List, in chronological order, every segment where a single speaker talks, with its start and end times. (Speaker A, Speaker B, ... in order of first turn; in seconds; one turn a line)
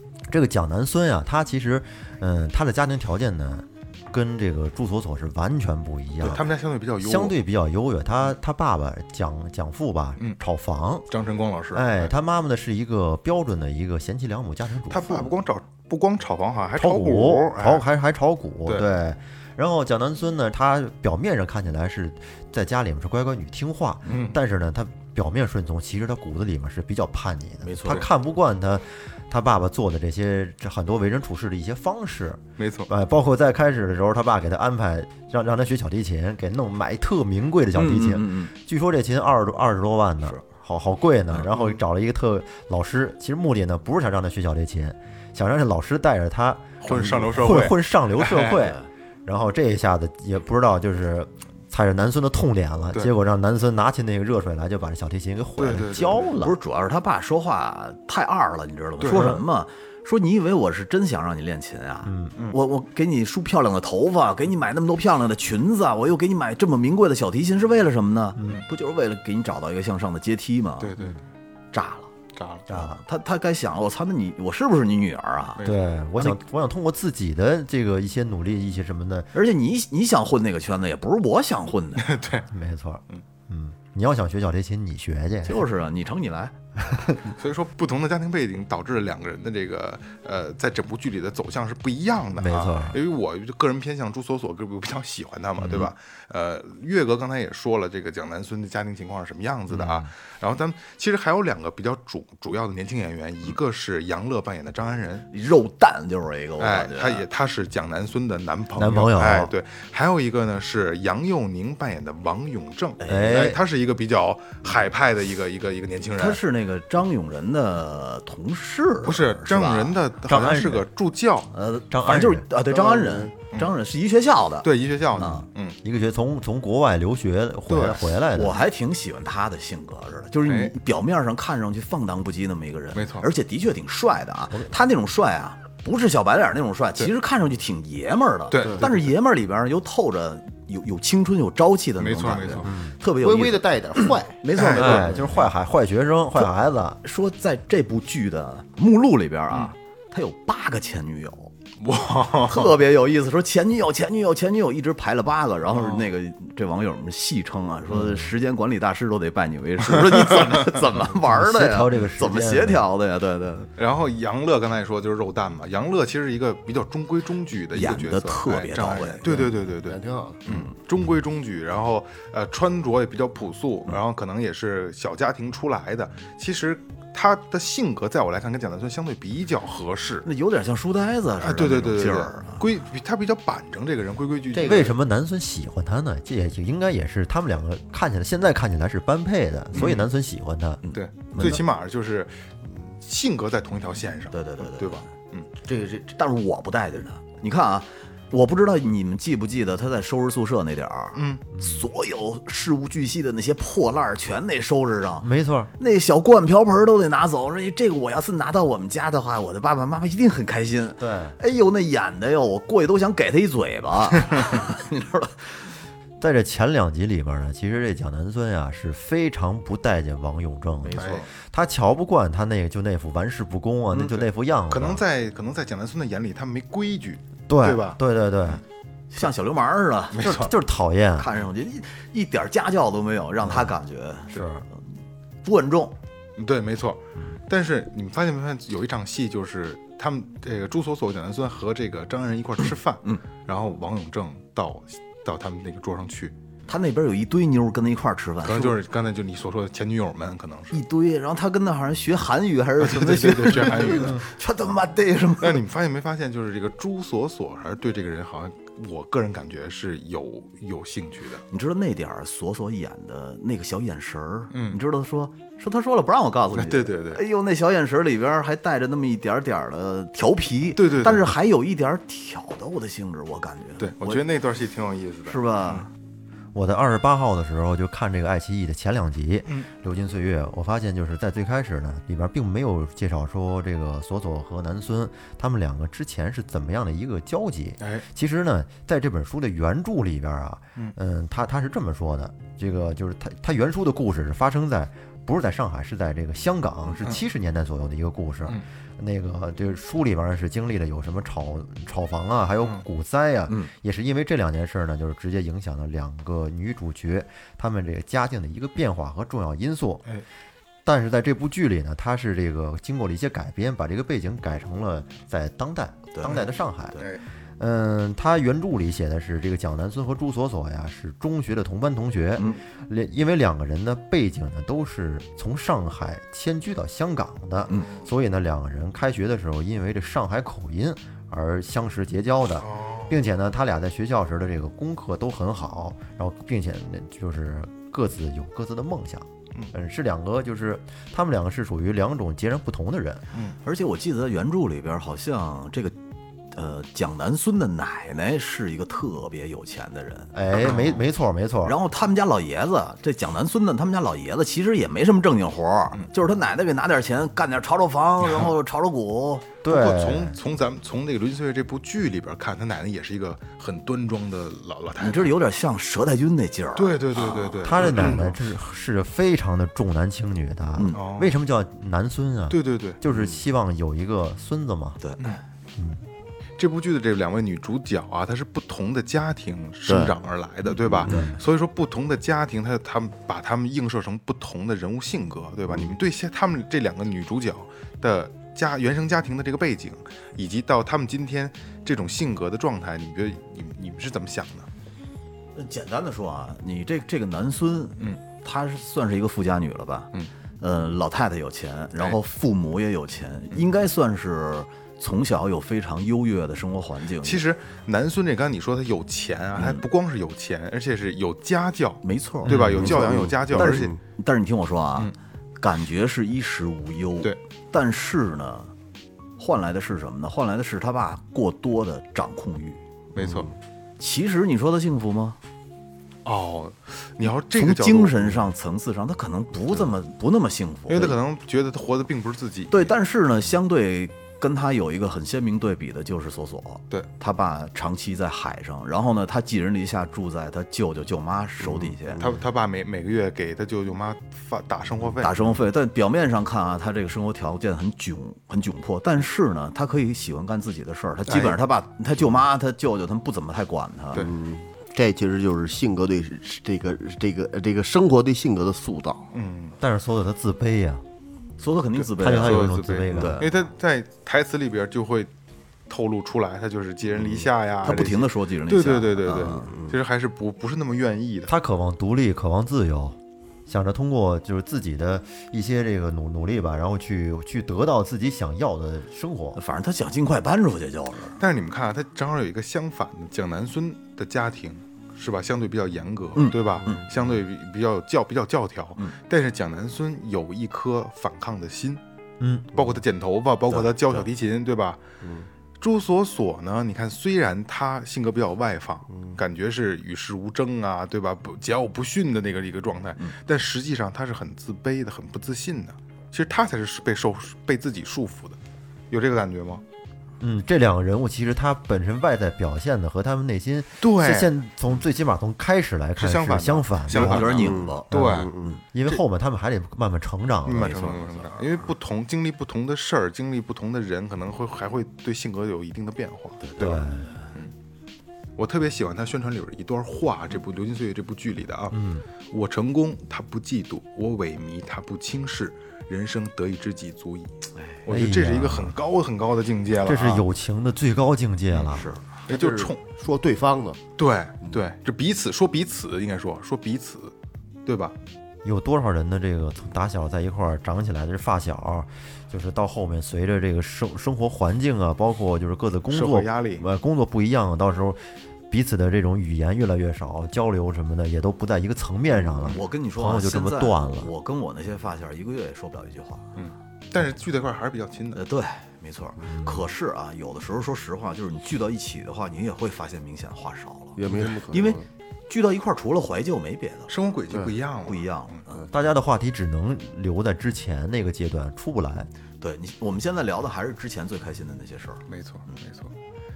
Speaker A: 0.3-6.4
Speaker B: 6.2-7.3
Speaker A: 7.0-11.1
Speaker B: 11.1-12.1
Speaker A: 11.7-15.3
Speaker B: 14.9-17.8
Speaker A: 16.8-56.6
Speaker B: 24.1-24.4
Speaker C: 27.6-28.1
Speaker B: 32.6-32.9
Speaker C: 37.7-38.5
Speaker B: 41.5-41.8
Speaker B: 46.8-48.6
Speaker C: 48.6-48.9
Speaker B: 55.6-56.4
Speaker C: 56.4-70.9
Speaker B: 59.0-59.4
Speaker A: 59.1-59.4
Speaker A: 62.0-62.3
Speaker B: 70.8-71.2
Speaker C: 71.7-72.1
Speaker B: 72.3-72.7
Speaker A: 72.7-73.0
Speaker C: 72.8-75.6
Speaker A: 75.6-79.3
Speaker C: 79.3-82.1
Speaker B: 82.0-82.5
Speaker A: 82.5-85.7
Speaker C: 85.4-86.5
Speaker B: 87.4-105.3
Speaker A: 92.3-93.0
Speaker C: 95.6-95.9
Speaker C: 99.7-100.0
Speaker C: 105.3-107.3
Speaker B: 106.6-116.4
Speaker A: 108.8-109.5
Speaker C: 113.0-113.5
Speaker A: 113.0-113.6
Speaker C: 116.2-120.0
Speaker B: 119.0-121.5
Speaker A: 120.3-120.8
Speaker C: 121.5-125.5
Speaker A: 121.9-122.4
Speaker D: 122.7-123.3
Speaker B: 124.6-125.8
Speaker A: 125.8-128.6
Speaker B: 127.7-128.0
Speaker C: 127.8-143.7
Speaker B: 130.4-130.7
Speaker B: 132.9-133.3
Speaker B: 138.5-139.1
Speaker B: 142.0-142.7
Speaker A: 142.6-143.0
Speaker D: 143.2-144.4
Speaker C: 144.4-145.5
Speaker B: 144.5-145.2
Speaker A: 144.7-147.0
Speaker C: 147.0-151.5
Speaker B: 151.8-152.8
Speaker C: 152.4-163.7
Speaker B: 155.7-156.1
Speaker A: 157.9-158.3
Speaker B: 160.0-160.6
Speaker A: 161.2-162.8
Speaker B: 163.8-180.2
Speaker C: 167.7-169.4
Speaker D: 169.3-170.4
Speaker C: 180.2-182.6
Speaker B: 181.4-184.9
Speaker D: 184.5-184.9
Speaker A: 184.6-190.8
Speaker B: 189.7-190.1
Speaker C: 190.8-191.6
Speaker B: 190.9-195.5
Speaker C: 194.3-195.1
Speaker D: 195.6-196.1
Speaker C: 196.1-215.7
Speaker B: 201.1-201.5
Speaker A: 201.6-201.8
Speaker A: 205.2-205.7
Speaker A: 211.0-211.4
Speaker A: 216.2-225.0
Speaker C: 220.8-221.3
Speaker B: 220.9-221.2
Speaker C: 223.9-224.2
Speaker B: 224.7-228.0
Speaker A: 227.5-228.6
Speaker C: 229.1-230.5
Speaker B: 230.1-230.5
Speaker A: 230.2-231.3
Speaker C: 231.2-234.8
Speaker A: 233.4-233.8
Speaker A: 234.3-234.7
Speaker C: 235.4-235.9
Speaker B: 236.4-246.3
Speaker C: 246.7-248.8
Speaker B: 248.4-250.8
Speaker C: 250.7-255.6
Speaker B: 252.8-254.2
Speaker B: 255.4-261.4
Speaker C: 261.5-274.2
Speaker B: 264.5-264.8
Speaker B: 266.5-267.2
Speaker B: 270.7-271.3
Speaker B: 273.8-275.9
Speaker C: 275.2-275.9
Speaker A: 276.5-310.0
Speaker A: 310.8-317.0
Speaker C: 316.1-316.4
Speaker B: 316.2-317.2
Speaker A: 317.6-343.2
Speaker B: 332.6-333.2
Speaker C: 343.6-345.9
Speaker C: 346.5-351.0
Speaker A: 350.3-351.8
Speaker B: 350.5-351.0
Speaker C: 351.6-359.6
Speaker B: 358.2-358.5
Speaker A: 359.6-360.4
Speaker B: 359.6-365.4
Speaker C: 365.0-368.2
Speaker B: 366.7-368.4
Speaker A: 367.6-375.0
Speaker C: 370.8-371.0
Speaker B: 370.9-371.3
Speaker B: 372.5-373.0
Speaker C: 373.1-373.4
Speaker C: 375.0-375.4
Speaker A: 375.7-376.0
Speaker B: 376.6-394.7
Speaker C: 380.6-381.4
Speaker A: 381.1-381.4
Speaker C: 395.5-407.4
Speaker B: 407.2-414.0
Speaker C: 409.6-409.8
Speaker C: 412.0-418.7
Speaker A: 412.5-412.7
Speaker D: 412.8-413.9
Speaker C: 419.4-423.2
Speaker B: 423.1-423.5
Speaker C: 424.0-425.4
Speaker B: 426.2-428.5
Speaker C: 427.3-431.2
Speaker B: 430.9-432.9
Speaker C: 432.7-442.3
Speaker B: 441.8-445.5
Speaker C: 445.2-454.3
Speaker B: 451.3-451.6
Speaker D: 454.1-459.2
Speaker B: 459.3-459.8
Speaker A: 459.8-461.0
Speaker C: 461.6-463.5
Speaker B: 461.9-465.3
Speaker A: 462.2-463.5
Speaker B: 465.9-471.5
Speaker C: 467.4-469.8
Speaker A: 471.5-479.6
Speaker C: 479.6-481.4
Speaker B: 481.4-492.0
Speaker C: 486.4-487.3
Speaker A: 492.4-492.7
Speaker B: 492.7-495.0
Speaker C: 493.7-494.3
Speaker D: 495.2-495.5
Speaker B: 495.8-508.6
Speaker B: 509.1-509.8
Speaker A: 510.4-517.5
Speaker B: 514.0-514.5
Speaker B: 516.2-518.5
Speaker C: 517.1-518.8
Speaker D: 517.5-518.7
Speaker A: 518.1-521.0
Speaker B: 520.6-527.7
Speaker C: 520.8-521.7
Speaker C: 526.6-527.4
Speaker A: 526.8-527.3
Speaker B: 528.6-532.0
Speaker A: 531.9-532.2
Speaker B: 532.5-540.4
Speaker A: 538.1-539.0
Speaker A: 540.0-542.1
Speaker C: 540.2-540.4
Speaker B: 541.7-543.0
Speaker C: 541.9-542.2
Speaker D: 542.5-544.0
Speaker B: 544.2-547.3
Speaker B: 547.9-548.1
Speaker A: 548.6-564.3
Speaker B: 556.1-556.9
Speaker B: 562.6-562.8
Speaker C: 562.6-566.5
Speaker B: 566.5-568.4
Speaker C: 568.3-574.2
Speaker D: 574.1-575.1
Speaker C: 574.7-577.1
Speaker B: 577.1-578.6
Speaker C: 578.0-578.9
Speaker A: 578.9-582.3
Speaker C: 582.6-585.2
Speaker B: 585.3-586.1